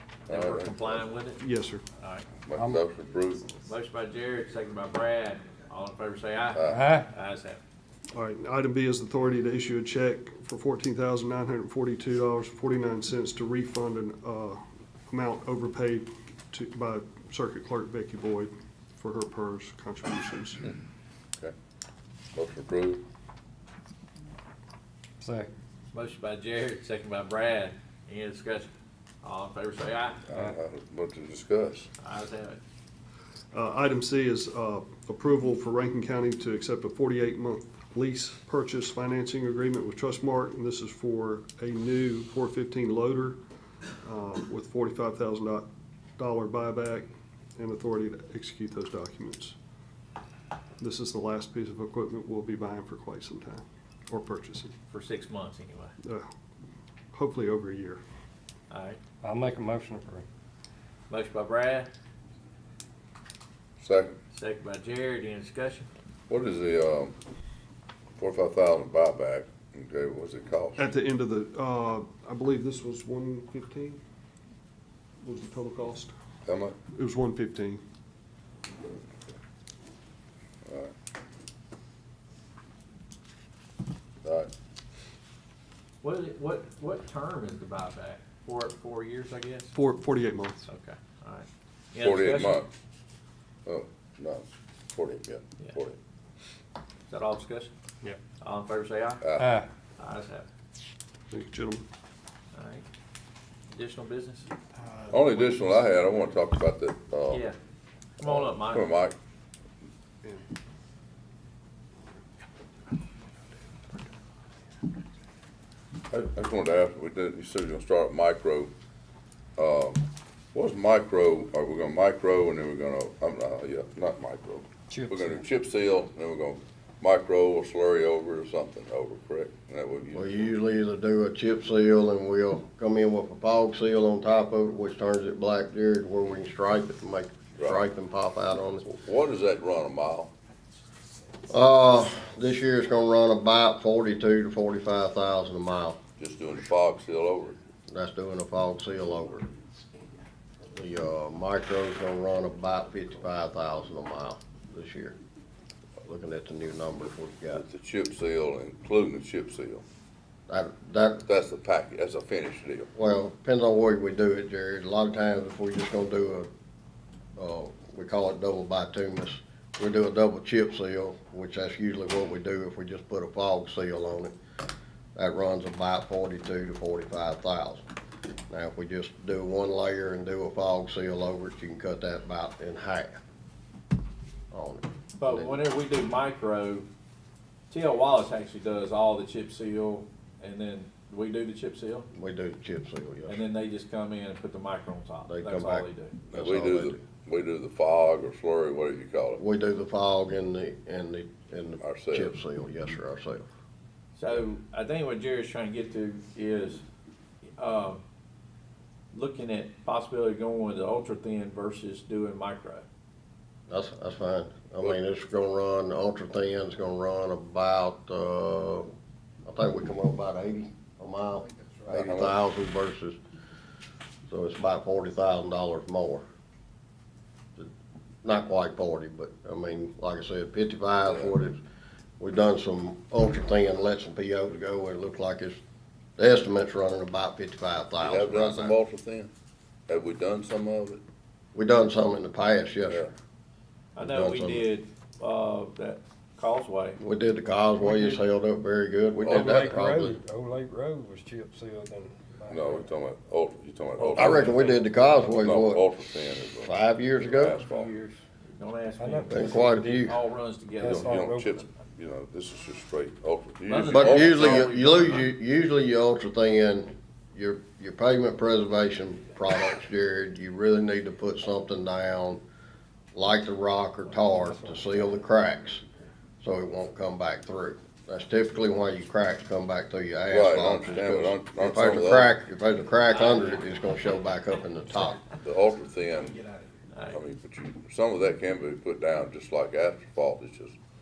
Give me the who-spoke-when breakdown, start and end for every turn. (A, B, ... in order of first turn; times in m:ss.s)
0:00.3-0:01.0 A
0:00.3-0:01.4 B
0:01.4-0:01.8 C
0:02.0-0:02.3 B
0:02.5-0:03.5 A
0:02.5-0:02.8 D
0:03.7-0:07.6 B
0:06.6-0:06.8 A
0:06.7-0:07.1 D
0:08.1-0:20.6 C
0:22.3-0:23.0 A
0:25.2-0:25.5 D
0:25.9-0:28.7 B
0:29.2-0:30.2 B
0:30.3-0:31.9 A
0:32.0-0:32.6 B
0:33.5-0:43.4 C
0:44.0-0:49.6 C
0:50.8-0:54.7 C
0:54.9-0:55.9 B
0:56.0-0:56.3 C
0:57.1-0:58.0 C
0:58.7-0:59.0 B
0:59.2-1:00.2 D
1:01.1-1:01.9 B
1:03.8-1:04.2 A
1:04.3-1:05.9 B
1:06.3-1:07.2 A
1:08.2-1:10.9 A
1:10.8-1:14.0 C
1:15.2-1:16.1 C
1:16.5-1:16.8 A
1:16.9-1:17.8 C
1:20.7-1:20.9 A
1:24.2-1:24.5 A
1:26.0-1:29.7 B
1:29.7-1:30.7 C
1:30.7-1:32.6 B
1:32.0-1:32.7 A
1:33.7-1:36.0 A
1:37.1-1:37.7 B
1:38.4-1:39.2 B
1:39.2-1:39.6 A
1:39.4-1:39.7 D
1:40.0-1:40.5 B
1:41.3-1:41.9 C
1:42.5-1:42.8 B
1:43.7-1:44.5 B
1:44.8-1:45.1 C
1:45.1-1:47.4 A
1:47.3-1:47.6 B
1:48.2-1:49.0 B
1:48.2-1:49.2 A
1:56.1-1:58.7 A
1:59.6-2:10.5 A
2:04.9-2:05.4 D
2:10.1-2:18.8 E
2:17.6-2:17.8 A
2:18.8-2:20.3 A
2:21.5-2:26.0 E
2:26.2-2:27.6 A
2:27.9-2:29.5 E
2:30.7-2:35.2 E
2:36.0-2:37.6 E
2:37.5-2:39.8 A
2:40.5-2:41.2 E
2:41.3-2:42.9 A
2:43.0-2:46.5 E
2:47.4-2:54.3 E
2:55.2-2:57.8 E
2:58.5-3:03.2 E
3:04.5-3:05.6 E
3:05.2-3:06.9 B
3:07.7-3:12.1 B
3:12.1-3:13.4 E
3:13.3-3:16.2 B
3:15.3-3:17.0 E
3:16.3-3:19.4 A
3:19.4-3:23.5 E
3:21.8-3:22.3 A
3:24.2-3:26.8 B
3:27.6-3:28.0 B
3:29.1-3:32.9 B
3:33.7-3:38.9 E
3:39.5-3:43.2 E
3:41.9-3:42.4 A
3:44.3-3:46.2 E
3:48.2-3:51.6 E
3:51.1-3:51.4 A
3:52.2-3:55.6 E
3:56.2-3:58.8 E
3:58.0-3:59.3 A
3:59.9-4:01.0 A
4:01.5-4:03.1 E
4:04.0-4:07.0 B
4:04.0-4:04.6 E
4:07.0-4:10.2 E
4:09.2-4:09.7 A
4:09.3-4:12.9 D
4:12.5-4:14.6 A
4:14.1-4:15.8 E
4:14.2-4:15.2 D
4:15.3-4:17.9 A
4:16.6-4:17.6 E
4:17.5-4:21.6 B
4:19.0-4:20.2 D
4:19.3-4:20.2 E
4:20.8-4:21.6 D
4:20.8-4:24.7 A
4:23.7-4:25.3 B
4:23.9-4:32.4 E
4:33.1-4:35.8 E
4:34.3-4:34.9 D
4:36.4-4:45.2 E
4:40.3-4:42.4 A
4:43.2-4:43.7 B
4:45.4-4:46.4 A
4:46.9-4:47.2 B
4:47.1-4:50.8 A